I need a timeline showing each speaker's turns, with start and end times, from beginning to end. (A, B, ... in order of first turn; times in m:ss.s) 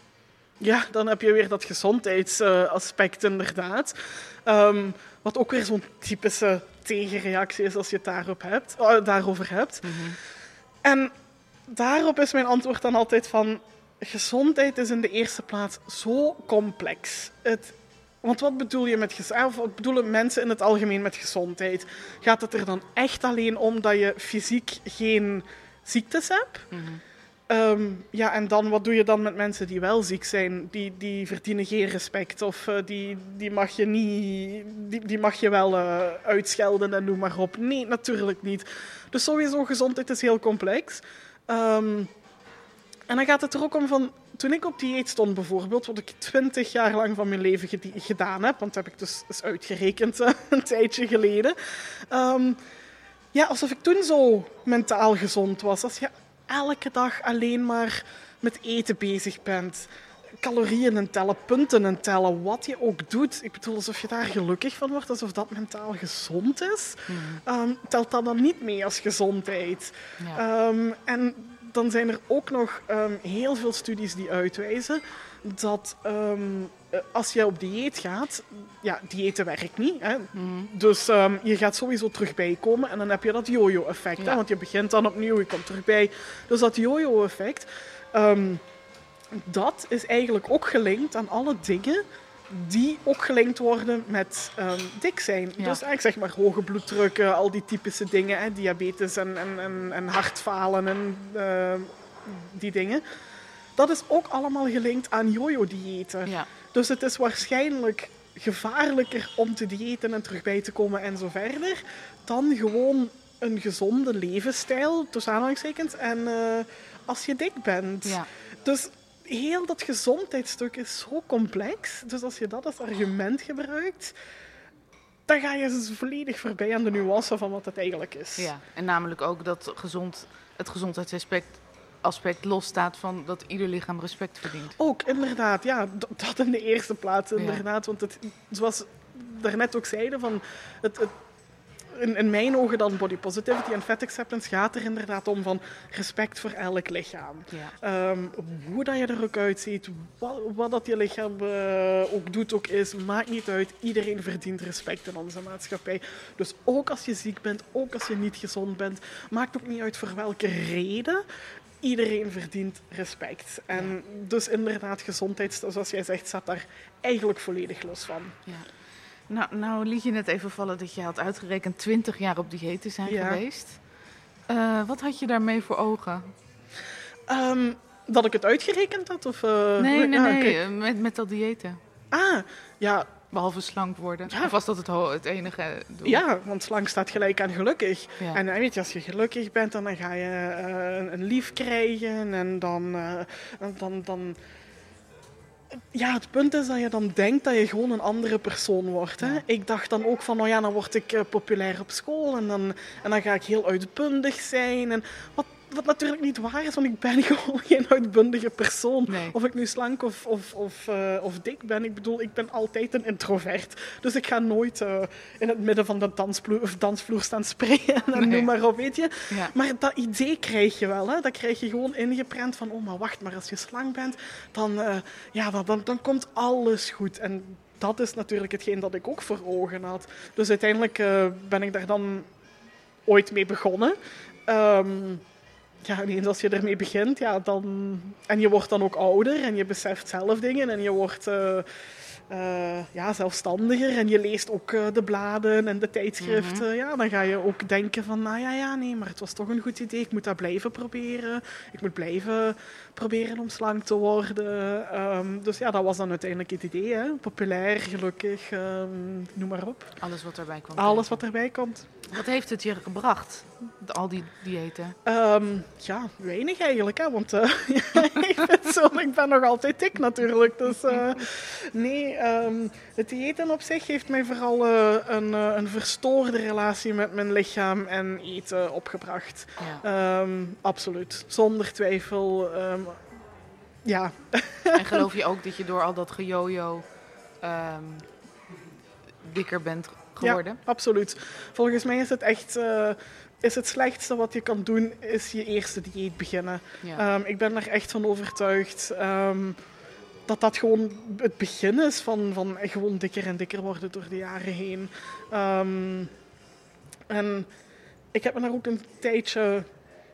0:00.6-0:10.1 A
0:09.8-0:10.2 B
0:10.8-0:11.1 A
0:11.7-0:26.7 A
0:26.7-0:27.0 B
0:27.5-0:42.1 A
0:43.1-0:51.6 A
0:52.1-0:52.6 A
0:53.3-0:59.9 A
1:00.4-1:28.6 A
1:07.1-1:07.4 B
1:20.3-1:20.7 B
1:29.3-1:43.0 A
1:43.8-2:04.2 A
1:46.2-1:46.5 B
2:05.3-2:08.5 A
2:08.4-2:14.8 B
2:14.8-2:21.2 A
2:17.4-2:17.6 B
2:21.9-2:41.2 A
2:41.8-2:48.4 A
2:49.3-2:53.8 B
2:53.1-2:53.4 A
2:54.5-2:56.3 B
2:57.3-3:00.6 A
2:59.8-3:01.8 B
3:02.1-3:03.2 A
3:03.3-3:06.2 B
3:06.0-3:14.4 A
3:15.9-3:52.3 A
3:29.1-3:29.4 B
3:38.2-3:38.5 B
3:53.1-3:54.0 A
3:54.5-3:55.2 A
3:55.8-4:01.7 A
4:02.3-4:20.0 A
4:06.2-4:06.7 B
4:20.0-4:21.2 B
4:20.8-4:21.9 A
4:22.1-4:25.0 B
4:25.0-4:43.0 A
4:43.8-4:45.1 A
4:44.7-4:46.8 B
4:47.4-4:48.1 B
4:49.2-4:50.6 B
4:50.2-4:59.6 A
5:00.3-5:06.1 A
5:07.1-5:07.5 A
5:08.1-5:09.7 A